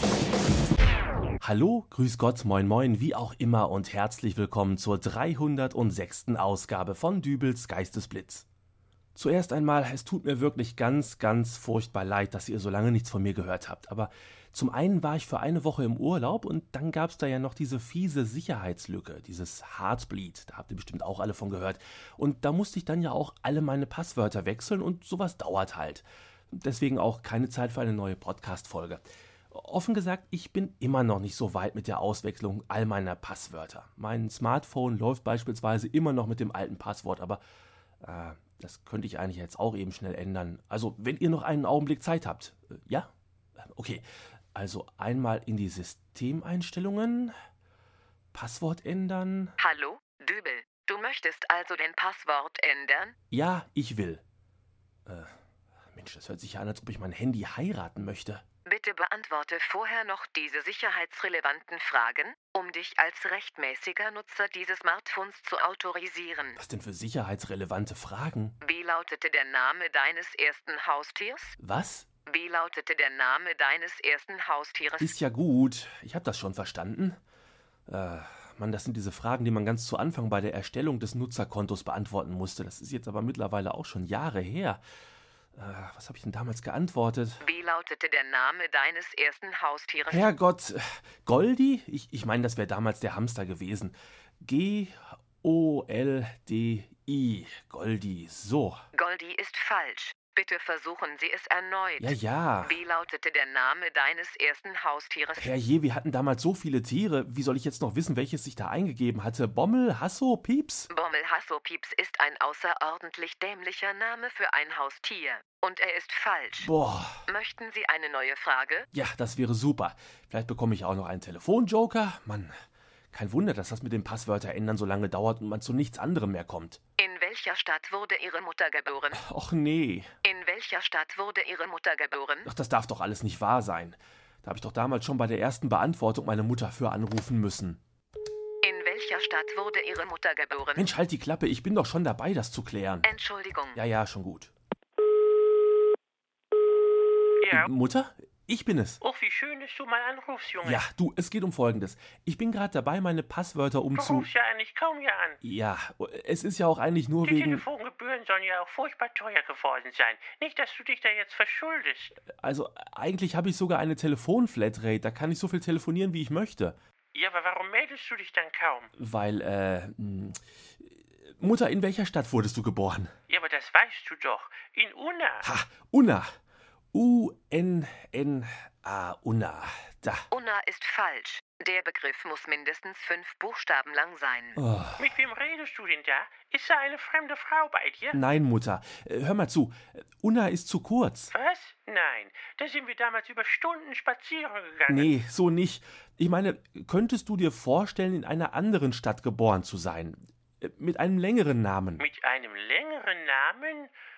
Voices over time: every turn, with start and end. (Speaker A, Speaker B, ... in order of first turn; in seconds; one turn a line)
Speaker A: 1.4-8.4
Speaker A: 9.1-37.4
Speaker A: 38.0-43.1
Speaker A: 43.7-47.3
Speaker A: 48.3-49.5
Speaker B: 49.6-53.1
Speaker A: 53.3-54.2
Speaker A: 55.0-55.3
Speaker A: 55.9-58.4
Speaker B: 58.6-66.6
Speaker A: 66.6-68.5
Speaker B: 68.6-71.6
Speaker A: 71.6-72.1
Speaker B: 72.2-75.2
Speaker A: 75.0-77.2
Speaker A: 77.9-84.8
Speaker A: 85.5-87.4
Speaker B: 87.4-90.3
Speaker A: 90.1-98.8
Speaker B: 98.9-105.5
Speaker A: 102.0-102.8
Speaker A: 105.4-110.9
Speaker B: 110.9-116.7
Speaker A: 116.6-117.2
Speaker B: 117.3-118.9
Speaker A: 118.9-122.5
Speaker A: 123.1-126.8
Speaker B: 127.0-129.2
Speaker A: 129.1-130.1
Speaker B: 130.2-132.5
Speaker A: 132.4-137.8
Speaker B: 138.6-140.9
Speaker A: 140.8-143.1
Speaker B: 143.0-143.8
Speaker A: 143.7-144.5
Speaker C: 147.4-147.7
Speaker A: 147.5-149.0
Speaker C: 149.0-150.8
Speaker A: 150.6-154.3
Speaker C: 153.9-155.4
Speaker A: 155.4-157.6
Speaker C: 157.2-162.2
Speaker A: 162.3-166.8
Speaker C: 167.1-168.9
Speaker A: 168.9-170.4
Speaker A: 171.3-173.1
Speaker C: 173.3-175.4
Speaker A: 175.4-176.3
Speaker A: 176.9-180.3
Speaker B: 180.3-184.6
Speaker A: 184.6-185.0
Speaker C: 185.0-188.2
Speaker A: 188.1-191.3
Speaker C: 191.3-195.1
Speaker A: 194.9-202.0
Speaker C: 202.0-203.9